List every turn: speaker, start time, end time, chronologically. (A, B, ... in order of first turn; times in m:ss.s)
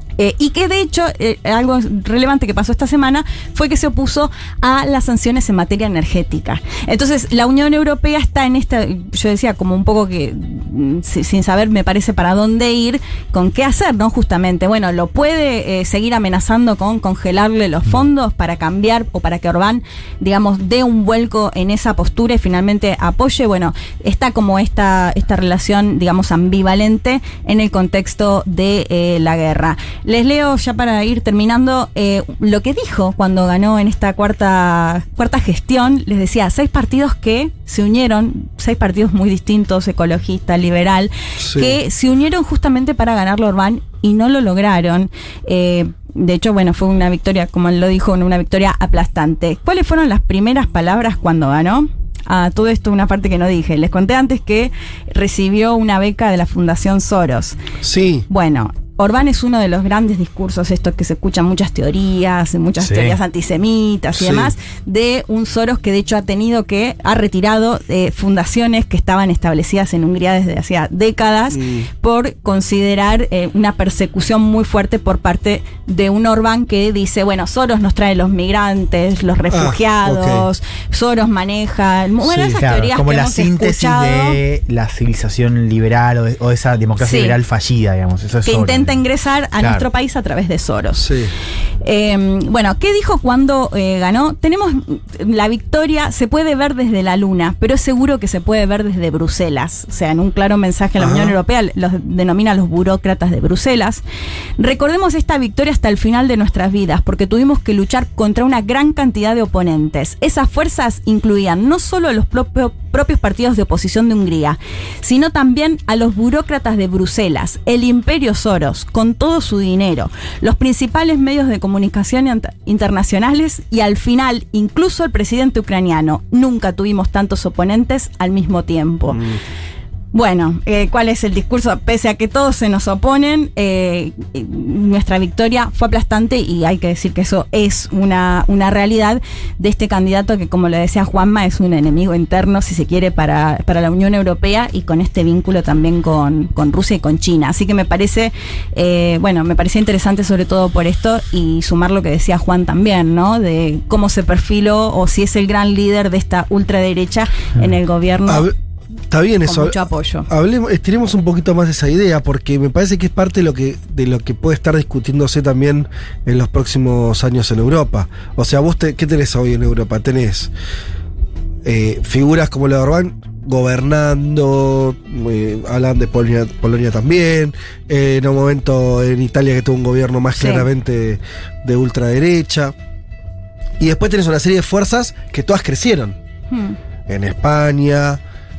0:00.2-0:57.6 A
0:41.4-0:41.8 B
0:57.8-0:58.3 B
0:58.3-1:24.4 A
1:02.8-1:03.2 C
1:04.1-1:04.5 B
1:11.5-1:11.9 B
1:19.5-1:20.4 B
1:22.2-1:22.6 B
1:22.6-1:29.0 C
1:27.0-1:27.4 A
1:28.4-1:31.1 A
1:29.6-1:29.9 C
1:31.0-1:31.3 B
1:31.8-1:44.0 A
1:41.0-1:41.4 B
1:44.6-2:09.2 A
2:09.1-2:09.4 B
2:10.1-2:38.5 A
2:38.3-2:38.5 B
2:39.1-2:50.5 B
2:39.4-2:40.3 A
2:51.6-3:02.7 B
3:00.4-3:00.7 A
3:03.8-3:06.2 B
3:06.5-3:06.8 A
3:07.1-3:08.2 B